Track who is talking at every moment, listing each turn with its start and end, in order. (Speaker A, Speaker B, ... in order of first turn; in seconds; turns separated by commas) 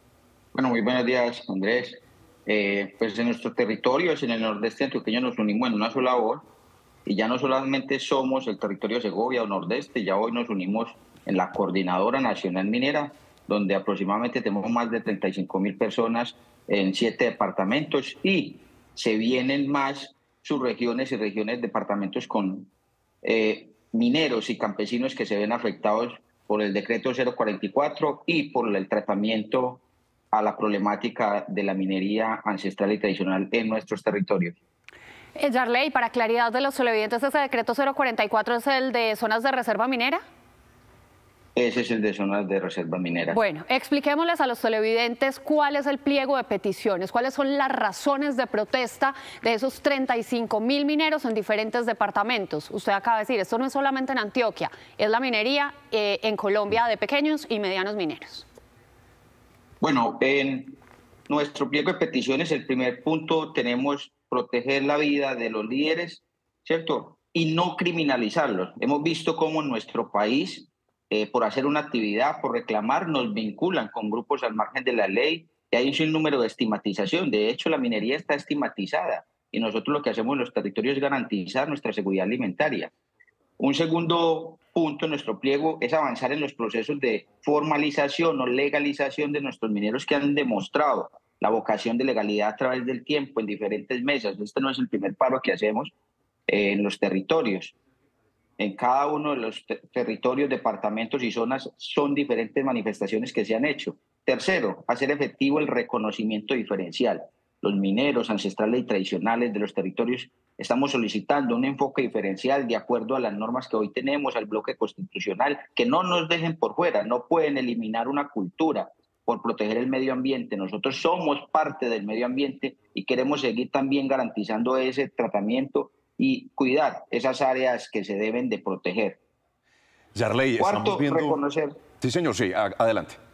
Speaker A: 0.5-6.5, Speaker A: 7.0-22.7, Speaker A: 23.2-34.6, Speaker B: 35.4-40.2, Speaker A: 41.5-43.4, Speaker B: 43.3-58.5, Speaker A: 59.8-82.9, Speaker A: 83.6-95.9, Speaker A: 96.5-97.7, Speaker A: 98.6-129.2, Speaker C: 130.1-131.4, Speaker A: 130.6-131.8, Speaker C: 132.0-133.2